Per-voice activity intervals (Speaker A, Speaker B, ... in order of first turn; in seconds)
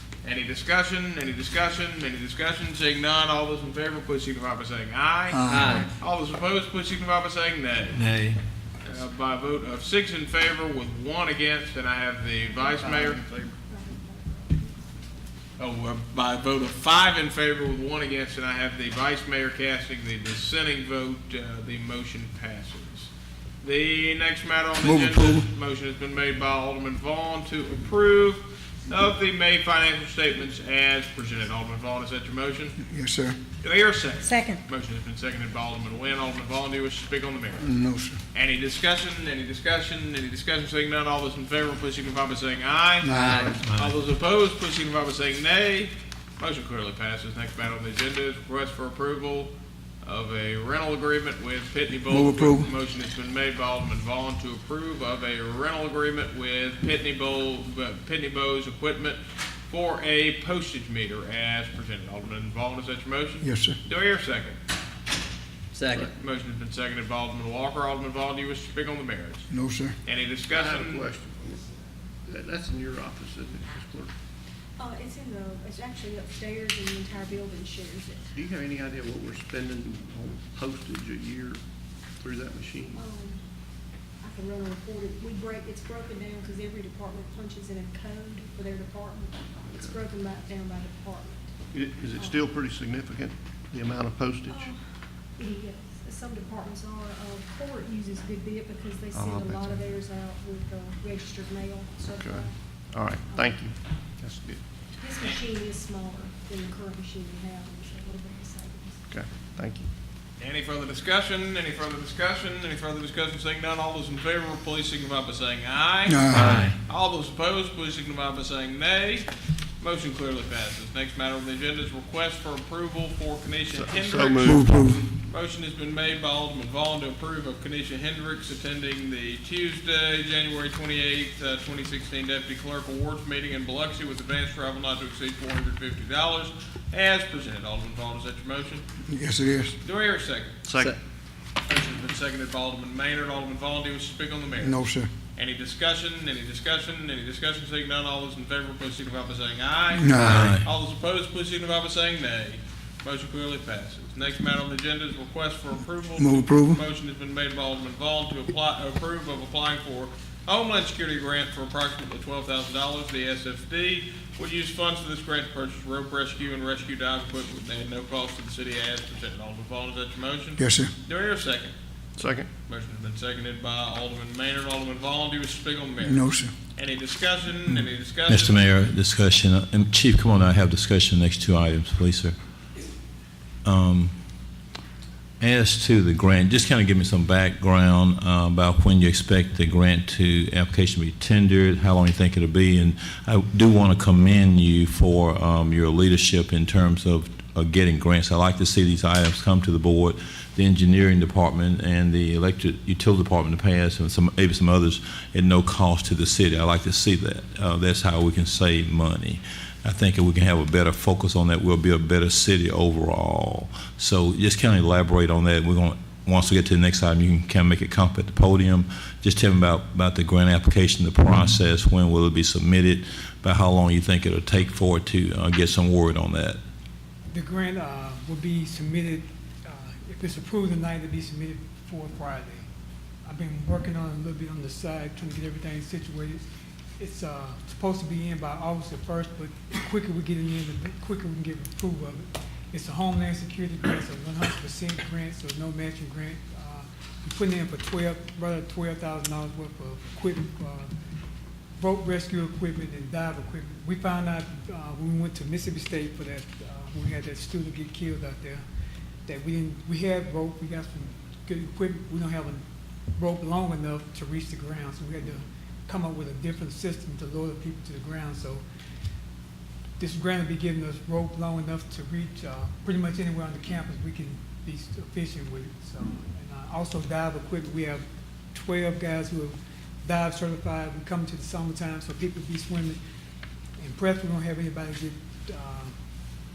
Speaker A: 0.2-8.1, 8.8-13.2, 15.6-23.1, 23.6-32.8, 33.6-37.7, 38.3-49.5, 50.0-64.6, 66.0-69.5, 70.0-71.0, 110.4-119.3, 119.8-138.9, 139.8-140.6, 141.6-171.7, 172.6-178.8
Speaker B: 5.5-5.9, 43.1-43.9, 65.7-66.1, 116.3-116.8
Speaker C: 12.5-15.3, 74.8-78.3, 82.9-83.4, 84.2-91.5, 92.1-92.4, 94.5-94.8, 95.3-102.7, 103.2-103.6, 105.0-109.0
Speaker D: 24.8-25.5, 32.9-33.4, 37.6-38.2, 52.1-52.7, 63.4-63.8, 69.5-70.0, 124.5-125.0, 139.1-139.7, 144.6-145.1, 149.9-150.6, 156.2-156.8, 170.6-170.9, 176.0-176.5
Speaker E: 70.5-71.7, 72.2-74.1, 78.3-81.6, 82.2-83.0, 89.7-90.0, 91.7-94.7, 99.1-99.9, 102.2-104.6, 109.1-109.9, 123.7-124.8, 140.6-141.0, 172.2-172.5
Speaker F: 116.1-116.6, 227.3-232.7, 233.2-236.4, 237.0-250.9, 251.8-258.6, 259.3-262.6, 263.1-268.6, 270.0-283.0, 283.8-286.0
Speaker G: 150.2-150.7, 178.3-182.3, 183.6-184.1, 185.4-226.6